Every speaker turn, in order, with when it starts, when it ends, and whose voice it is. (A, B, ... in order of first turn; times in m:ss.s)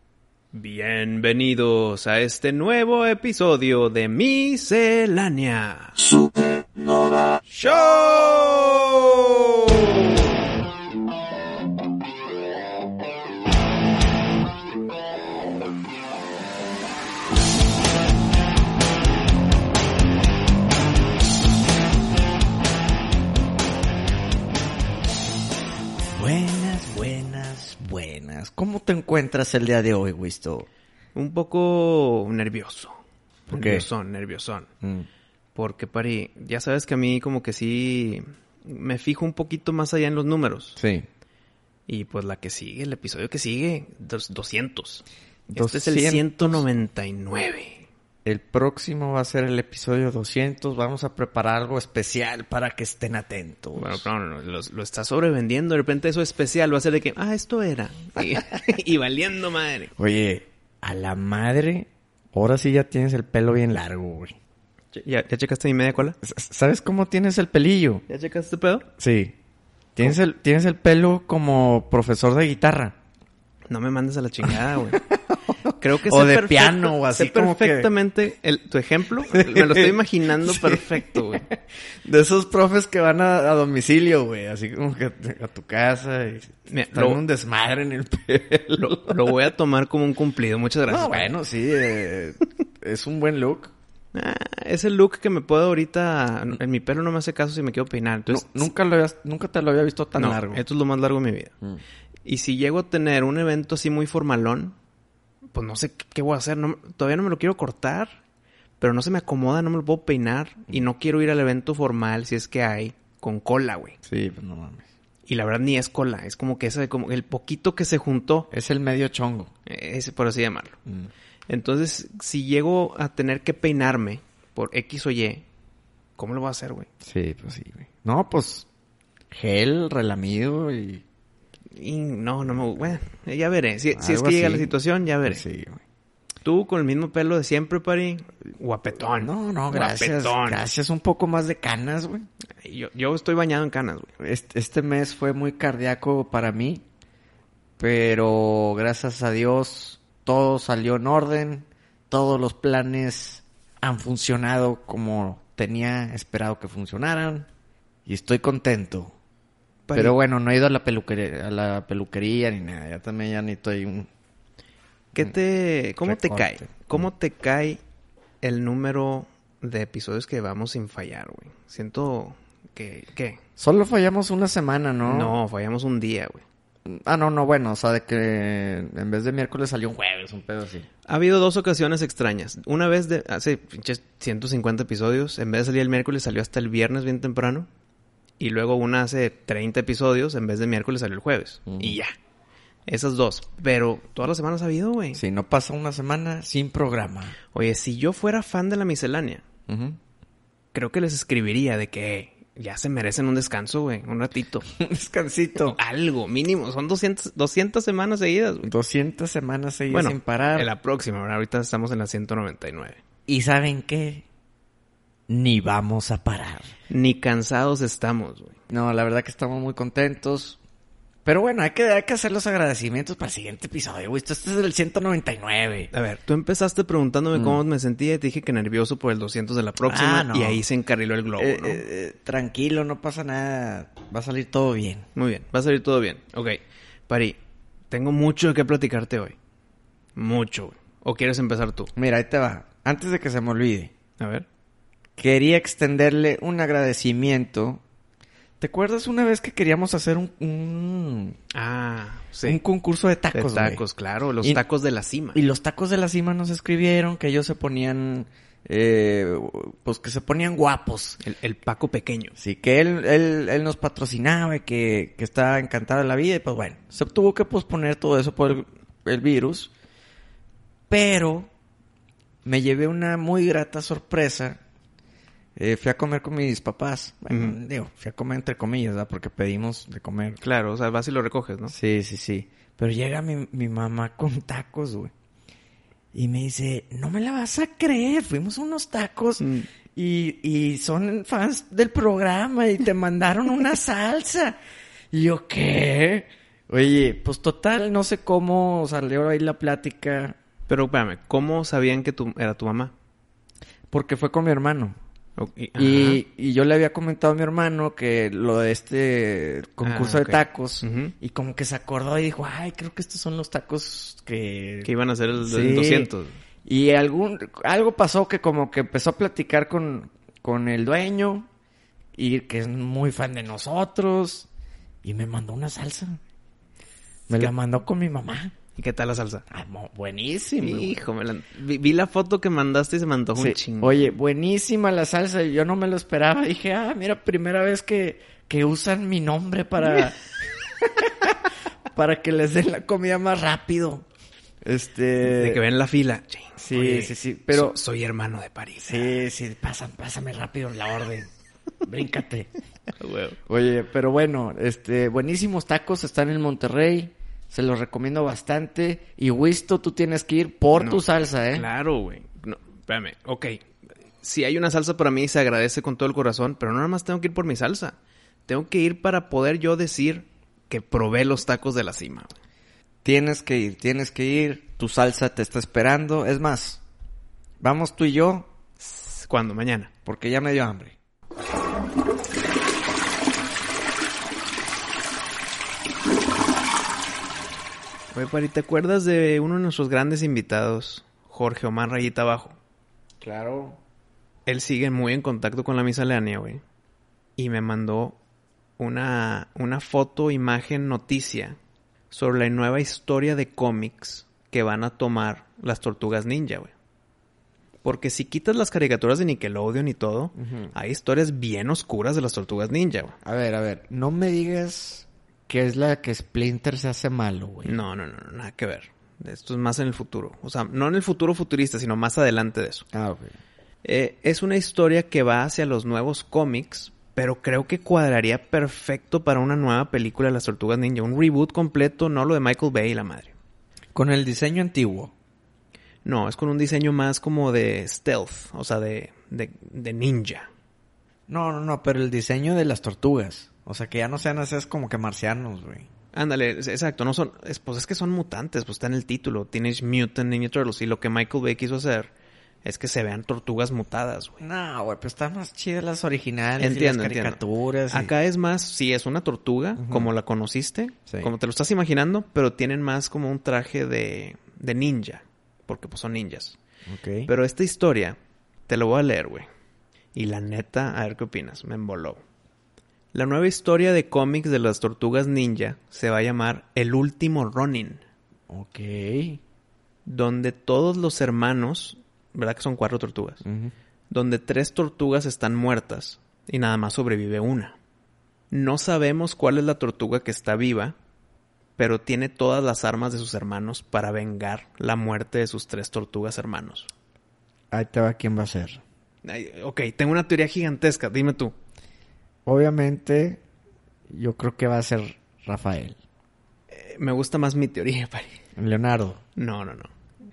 0:00.5-0:06.0 A
0:07.5-0:09.9 A
0:26.1-0:30.7 B
0:31.1-0:34.7 A
0:33.5-0:33.9 B
0:34.8-0:35.1 B
0:35.6-0:40.8 A
0:40.8-0:41.1 B
0:41.9-0:45.0 A
0:45.5-0:46.6 B
0:45.6-0:47.9 A
0:48.2-0:54.1 B
0:53.8-0:59.9 A
1:00.0-1:04.4 B
1:04.9-1:06.2 A
1:06.2-1:08.0 B
1:08.1-1:08.9 A
1:09.0-1:09.3 B
1:10.0-1:13.0 B
1:13.7-1:15.0 A
1:14.5-1:17.9 B
1:15.8-1:21.4 A
1:19.3-1:29.3 B
1:26.7-1:27.2 A
1:28.8-1:31.3 A
1:30.9-1:33.7 B
1:34.1-1:38.7 A
1:38.3-1:40.6 B
1:40.2-1:41.5 A
1:42.2-1:44.8 A
1:45.5-1:48.2 A
1:48.8-1:54.0 A
1:54.0-1:54.8 B
1:55.3-1:58.5 A
1:58.5-1:59.5 B
1:59.7-2:00.8 A
2:01.5-2:05.4 A
2:06.2-2:06.9 A
2:07.0-2:08.7 B
2:09.3-2:11.0 B
2:11.7-2:15.4 A
2:13.9-2:15.8 B
2:16.4-2:20.6 A
2:19.2-2:22.3 B
2:22.6-2:24.1 A
2:24.2-2:26.8 B
2:27.8-2:37.5 B
2:38.1-2:39.1 B
2:39.9-2:40.2 A
2:39.9-2:44.1 B
2:45.1-2:47.8 A
2:46.0-2:46.8 B
2:48.4-2:53.4 A
2:53.6-2:55.4 B
2:55.0-2:56.4 A
2:56.9-3:00.9 B
3:01.1-3:07.7 A
3:08.4-3:12.1 A
3:11.7-3:12.0 B
3:12.9-3:15.2 A
3:15.2-3:17.4 B
3:17.5-3:19.4 A
3:19.7-3:20.0 B
3:20.7-3:24.7 A
3:24.8-3:25.8 B
3:25.7-3:28.7 A
3:28.6-3:30.7 B
3:29.9-3:33.0 A
3:33.3-3:34.2 B
3:35.3-3:36.7 B
3:36.9-3:38.6 A
3:38.7-3:40.6 B
3:41.2-3:45.9 B
3:45.9-3:51.8 A
3:47.4-3:47.6 B
3:49.8-3:50.6 B
3:51.4-3:55.1 B
3:55.2-3:57.4 A
3:57.9-3:59.4 A
4:00.2-4:01.9 A
4:02.0-4:03.9 B
4:04.2-4:04.5 A
4:05.2-4:07.8 B
4:08.6-4:11.4 B
4:11.5-4:12.6 A
4:12.5-4:13.8 B
4:13.3-4:15.4 A
4:15.3-4:21.2 B
4:21.2-4:22.4 A
4:22.4-4:29.7 B
4:30.9-4:31.5 B
4:32.4-4:34.6 B
4:35.6-4:40.4 B
4:37.3-4:37.6 A
4:40.4-4:41.8 A
4:41.7-4:45.1 B
4:46.1-4:54.6 B
4:49.4-4:49.7 A
4:55.1-5:00.4 B
5:00.7-5:02.9 A
5:03.9-5:05.0 B
5:05.4-5:06.2 A
5:05.8-5:16.1 B
5:09.8-5:11.1 A
5:14.8-5:16.4 A
5:16.6-5:21.5 B
5:22.2-5:24.5 B
5:25.0-5:26.2 B
5:27.3-5:28.5 B
5:28.8-5:29.5 A
5:29.5-5:31.0 B
5:30.6-5:34.1 A
5:33.4-5:40.2 B
5:40.8-5:41.4 B
5:41.9-5:44.0 B
5:44.6-5:45.6 B
5:45.2-5:49.2 A
5:46.6-5:47.8 B
5:48.8-5:51.3 B
5:51.8-5:52.5 B
5:53.0-5:53.4 A
5:53.5-6:01.7 B
6:00.8-6:03.6 A
6:04.2-6:12.4 A
6:13.0-6:16.8 B
6:17.6-6:18.5 B
6:18.8-6:19.9 A
6:20.0-6:21.0 B
6:28.1-6:32.6 A
6:33.2-6:33.8 B
6:34.5-6:36.6 A
6:37.4-6:38.2 A
6:38.8-6:41.6 A
6:42.1-6:46.7 A
6:47.8-6:53.2 A
6:50.4-6:50.7 B
6:53.2-6:57.8 B
6:57.6-7:02.9 A
7:02.9-7:03.4 B
7:03.8-7:13.4 A
7:13.9-7:15.1 B
7:16.0-7:20.5 A
7:21.3-7:25.9 B
7:26.1-7:32.1 A
7:32.6-7:34.4 A
7:34.4-7:38.1 B
7:36.6-7:46.6 A
7:39.8-7:40.1 B
7:46.9-7:47.3 B
7:47.3-7:49.5 A
7:50.1-7:52.2 A
7:53.1-7:58.0 A
7:58.5-7:59.4 B
8:00.1-8:03.4 A
8:03.4-8:03.7 B
8:04.1-8:07.8 A
8:08.5-8:11.0 A
8:11.8-8:16.9 A
8:17.7-8:18.8 B
8:19.2-8:21.6 A
8:22.5-8:23.4 B
8:24.1-8:26.0 B
8:26.7-8:28.3 A
8:28.6-8:29.2 B
8:29.4-8:29.9 A